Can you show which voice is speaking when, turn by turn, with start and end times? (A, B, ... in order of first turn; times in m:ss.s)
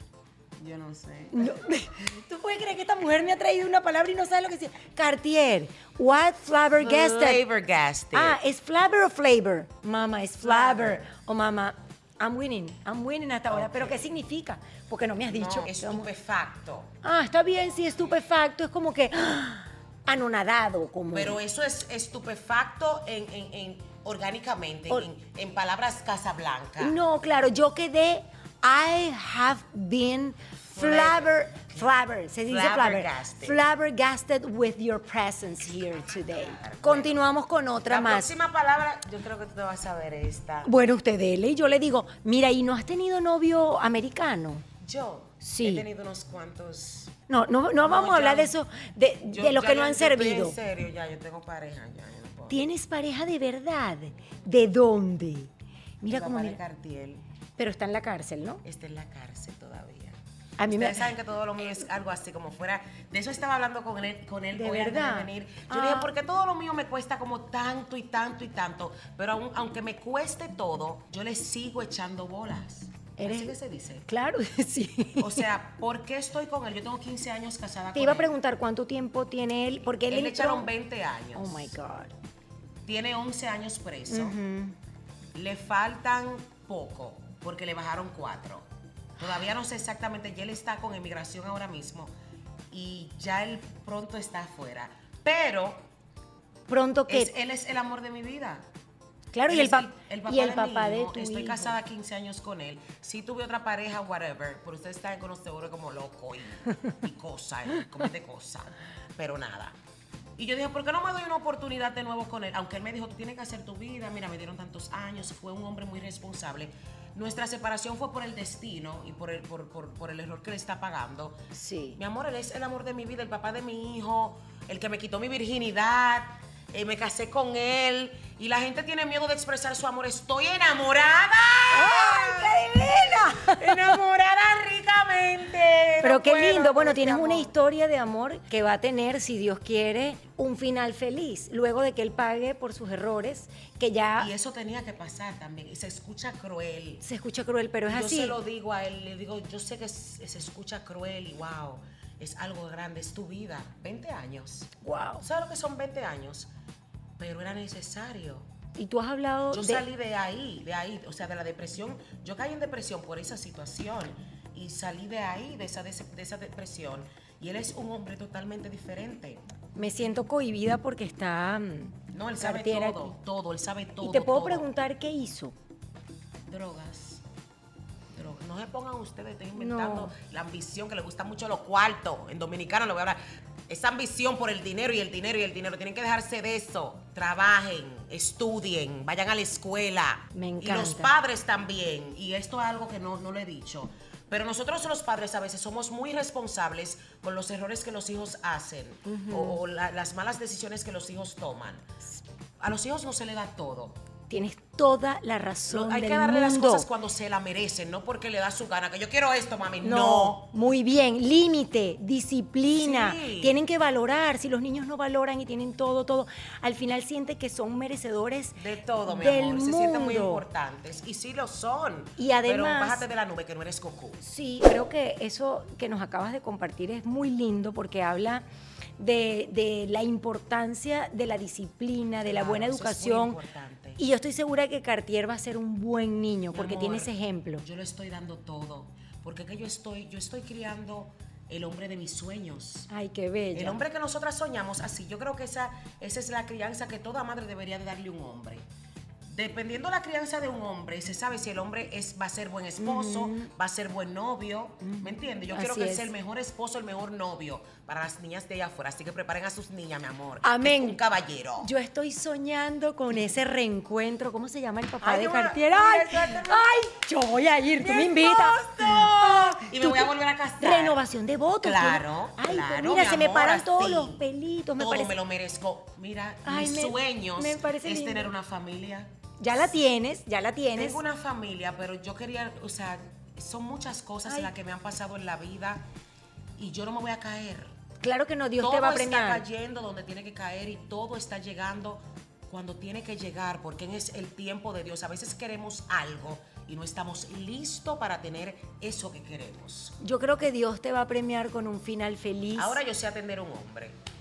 0:00.6-0:01.5 A
0:01.3-0:07.4 B
0:06.8-0:08.4 A
0:08.1-0:16.1 B
0:10.4-0:11.0 A
0:13.5-0:14.2 A
0:15.3-0:16.9 A
0:17.0-0:21.4 B
0:21.1-0:27.0 A
0:26.8-0:38.3 B
0:30.7-0:31.9 A
0:32.5-0:33.6 A
0:36.2-0:37.2 A
0:37.8-0:40.7 A
0:40.6-0:44.6 B
0:44.8-0:47.2 A
0:45.4-0:45.9 B
0:47.3-0:50.6 B
0:47.8-0:48.5 A
0:49.3-0:52.6 A
0:52.5-0:56.6 B
0:56.1-0:57.2 A
0:57.6-0:58.6 B
0:58.6-1:14.1 A
1:00.6-1:01.1 B
1:04.5-1:06.1 B
1:13.2-1:13.6 B
1:14.1-1:15.4 B
1:15.2-1:18.3 A
1:17.9-1:20.7 B
1:20.1-1:21.7 A
1:21.4-1:22.1 B
1:22.8-1:24.4 A
1:24.1-1:24.8 B
1:25.3-1:32.1 A
1:32.7-1:35.9 A
1:36.7-1:37.3 B
1:37.1-1:38.7 A
1:39.3-1:41.8 B
1:39.5-1:49.8 A
1:50.4-2:01.4 A
2:01.5-2:02.0 B
2:02.0-2:12.6 A
2:11.7-2:14.0 B
2:13.3-2:17.5 A
2:16.0-2:24.3 B
2:24.2-2:27.0 A
2:27.0-2:28.4 B
2:27.9-2:36.5 A
2:34.8-2:35.3 B
2:37.2-2:38.5 A
2:38.8-2:39.9 B
2:39.5-2:49.4 A
2:49.8-2:53.2 B
2:52.1-2:54.7 A
2:54.0-2:55.6 B
2:56.5-2:57.2 A
2:58.1-3:22.0 A
2:59.6-3:00.2 B
3:10.4-3:11.1 B
3:19.1-3:19.6 B
3:22.6-3:24.0 A
3:24.3-3:26.9 B
3:25.7-3:30.5 A
3:29.8-3:40.4 B
3:32.7-3:33.6 A
3:38.6-3:44.2 A
3:42.2-3:43.0 B
3:44.2-3:48.4 B
3:49.0-3:53.4 B
3:52.2-3:54.0 A
3:54.0-3:57.6 B
3:56.5-4:02.9 A
4:02.9-4:03.8 B
4:03.5-4:08.7 A
4:09.3-4:21.7 A
4:12.8-4:13.5 B
4:14.8-4:16.1 B
4:20.4-4:21.0 B
4:21.6-4:35.2 B
4:25.0-4:26.9 A
4:27.8-4:31.0 A
4:31.6-4:34.2 A
4:34.8-4:39.1 A
4:36.4-4:38.3 B
4:39.4-4:41.0 B
4:40.8-4:45.9 A
4:44.3-4:44.5 B
4:46.6-4:47.8 A
4:48.0-4:49.4 B
4:48.6-5:00.0 A
5:00.0-5:02.8 B
5:02.6-5:04.0 A